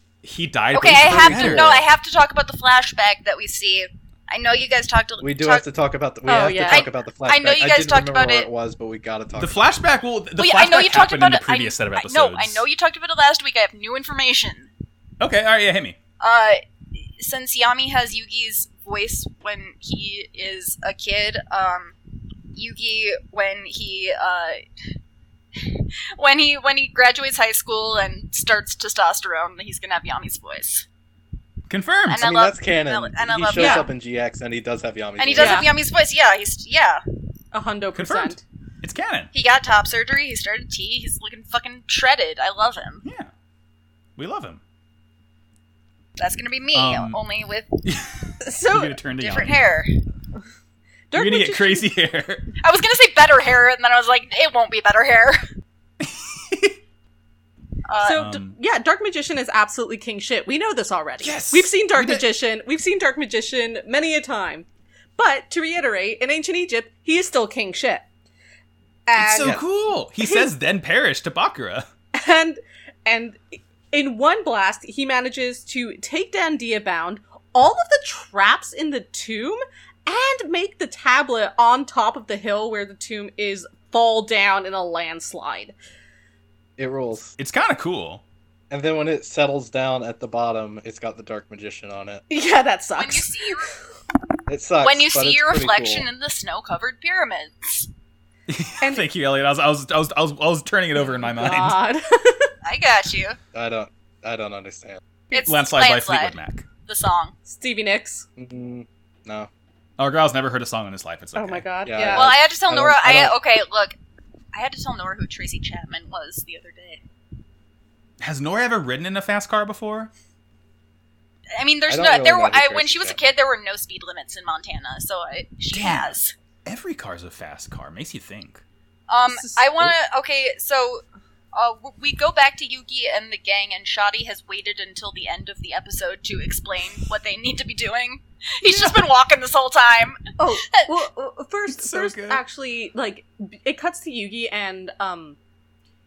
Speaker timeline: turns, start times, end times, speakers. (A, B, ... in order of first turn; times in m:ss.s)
0:00.2-0:01.8 A
0:00.7-0:05.6 B
0:00.7-0:01.8 C
0:05.2-0:09.6 C
0:06.3-0:06.9 D
0:06.6-0:08.5 B
0:09.4-0:12.6 A
0:10.4-0:14.7 B
0:15.2-0:16.0 A
0:16.2-0:22.0 B
0:22.5-0:24.6 B
0:25.5-0:30.8 B
0:31.7-0:32.3 A
0:32.1-0:33.9 B
0:32.2-0:35.7 C
0:33.6-0:33.9 D
0:35.2-0:37.0 B
0:35.3-0:35.7 D
0:37.5-0:38.4 D
0:38.0-0:39.3 A
0:39.3-0:43.0 B
0:43.0-0:43.3 A
0:44.2-0:44.6 A
0:46.2-0:47.8 B
0:46.7-0:47.2 A
0:47.8-0:49.6 A
0:48.4-0:49.0 D
0:49.2-0:49.9 B
0:51.1-0:51.9 D
0:51.1-0:52.5 A
0:52.6-0:55.4 B
0:56.0-0:56.8 A
0:57.8-0:58.2 B
0:58.0-1:04.6 D
0:58.1-0:58.5 A
1:01.2-1:02.3 A
1:05.2-1:08.0 D
1:09.1-1:09.6 D
1:09.2-1:11.9 A
1:09.4-1:09.6 C
1:10.2-1:10.5 D
1:12.1-1:25.7 D
1:26.8-1:27.4 C
1:27.4-1:28.2 A
1:28.7-1:32.2 C
1:32.3-1:33.6 D
1:32.9-1:33.7 B
1:34.5-1:36.0 C
1:34.8-1:37.9 B
1:38.5-1:41.8 A
1:40.9-1:42.5 D
1:42.6-1:43.4 B
1:43.5-1:45.0 C
1:45.3-1:46.4 B
1:45.3-1:46.6 A
1:46.9-1:47.4 B
1:47.4-1:48.2 D
1:48.4-1:49.5 C
1:50.0-1:51.6 A
1:51.3-1:52.3 D
1:51.8-1:53.3 C
1:52.1-1:54.0 B
1:54.5-1:57.0 B
1:58.2-2:00.1 A
2:01.6-2:06.3 B
2:01.9-2:03.3 C
2:05.7-2:08.6 A
2:09.1-2:20.9 B
2:09.3-2:09.9 D
2:18.6-2:19.0 D
2:20.4-2:25.4 D
2:21.7-2:22.4 A